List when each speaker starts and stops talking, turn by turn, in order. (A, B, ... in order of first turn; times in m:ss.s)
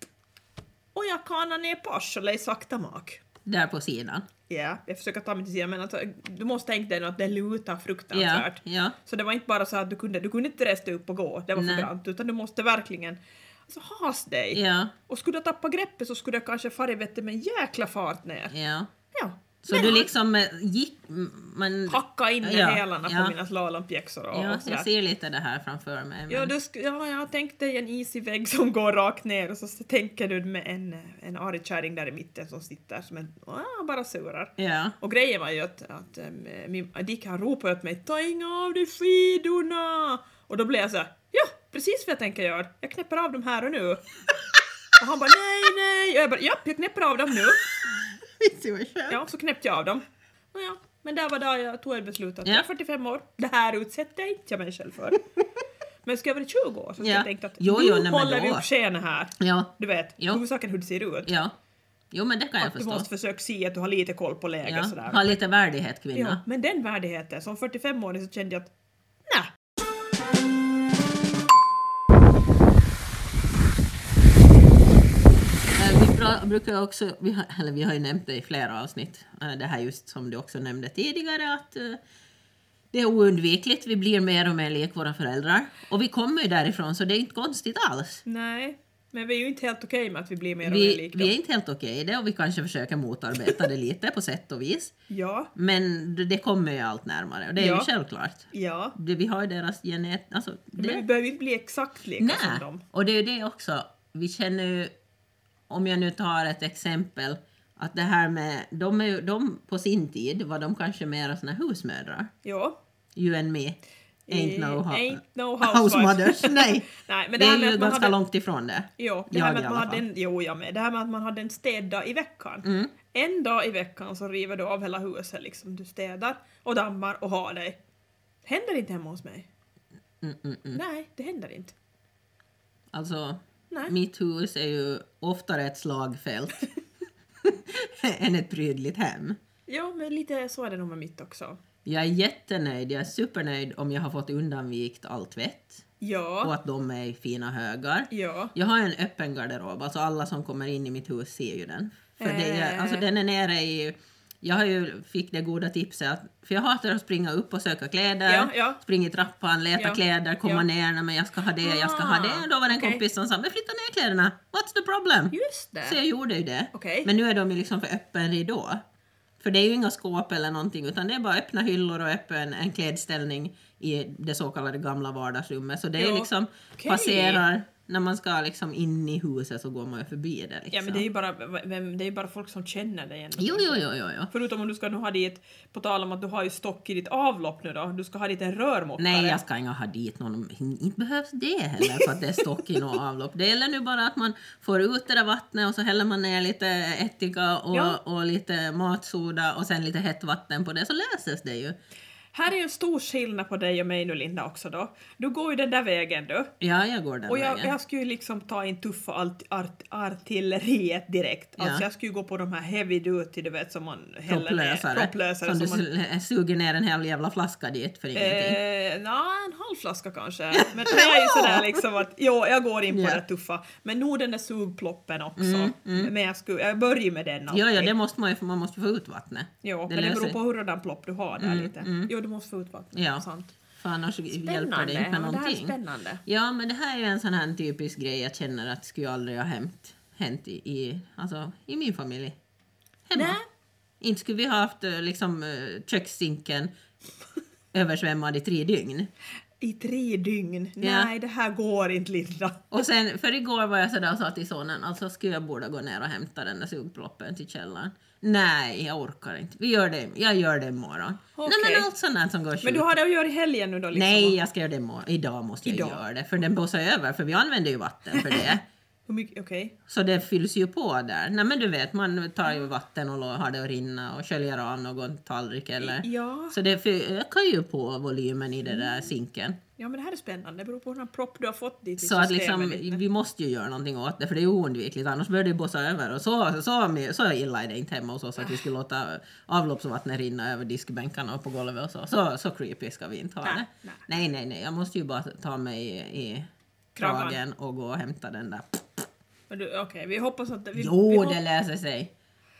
0:00.9-0:03.2 A
0:03.4-0:04.3 B
0:04.5-0:18.5 A
0:08.1-0:09.0 B
0:11.5-0:11.9 B
0:14.5-0:14.9 B
0:18.5-0:18.9 B
0:19.1-0:20.1 A
0:19.6-0:23.4 B
0:21.9-0:24.9 A
0:24.3-0:26.5 B
0:26.3-0:44.0 A
0:34.6-0:34.9 B
0:45.0-0:47.6 A
0:47.8-0:49.2 B
0:49.1-0:55.2 A
0:56.0-1:01.3 A
0:57.0-0:58.6 B
0:59.4-1:00.4 B
1:01.2-1:01.5 B
1:02.1-1:03.1 B
1:02.6-1:05.3 A
1:04.6-1:06.4 B
1:06.1-1:08.7 A
1:15.7-1:22.0 B
1:22.9-1:28.2 B
1:28.2-1:31.3 A
1:30.6-1:34.9 B
1:35.1-1:35.5 A
1:35.5-1:41.0 B
1:37.6-1:37.9 A
1:38.5-1:39.0 A
1:40.8-1:42.8 A
1:42.2-1:44.9 B
1:45.7-1:52.3 B
1:52.4-1:52.8 A
1:53.2-1:53.8 B
1:54.3-1:58.1 A
1:54.3-2:00.0 B
1:59.0-2:07.8 A
2:02.6-2:02.9 B
2:08.4-2:09.5 A
2:10.2-2:10.8 B
2:10.7-2:11.7 A
2:12.9-2:16.7 B
2:17.4-2:19.4 B
2:19.7-2:21.6 A
2:21.8-2:25.8 B
2:26.0-2:26.5 A
2:26.4-2:48.8 B
2:28.1-2:28.5 A
2:32.2-2:33.1 A
2:38.2-2:38.8 A
2:39.8-2:40.6 A
2:41.6-2:43.0 A
2:45.3-2:46.0 A
2:46.7-2:47.1 A
2:49.4-3:01.0 B
2:56.0-2:57.4 A
3:00.7-3:09.4 A
3:03.4-3:04.3 B
3:09.0-3:21.8 B
3:17.7-3:18.0 A
3:22.3-3:26.5 A
3:26.6-3:27.7 B
3:27.3-3:35.9 A
3:31.6-3:31.8 B
3:34.3-3:38.6 B
3:38.1-3:47.9 A
3:40.6-3:41.6 B
3:42.9-3:43.2 B
3:45.4-3:46.1 B
3:47.5-3:50.4 B
3:49.6-3:53.5 A
3:51.4-3:52.1 B
3:52.9-3:53.2 B
3:53.8-4:02.4 B
3:54.3-3:56.2 A
4:03.1-4:03.4 B
4:03.1-4:03.4 A
4:04.0-4:06.7 B
4:07.7-4:09.1 B
4:09.6-4:12.7 A
4:10.8-4:11.1 B
4:12.7-4:22.9 B
4:21.4-4:21.9 A
4:22.6-4:24.4 A
4:23.9-4:28.6 B
4:25.6-4:26.0 A
4:28.1-4:28.5 A
4:29.1-4:29.7 A
4:29.9-4:39.6 B
4:35.8-4:36.6 A
4:39.8-4:43.0 A
4:42.0-4:59.0 B
4:48.4-4:48.6 A
4:53.4-4:54.0 A
4:57.0-4:57.4 A
4:59.5-5:01.4 A
5:00.8-5:02.1 B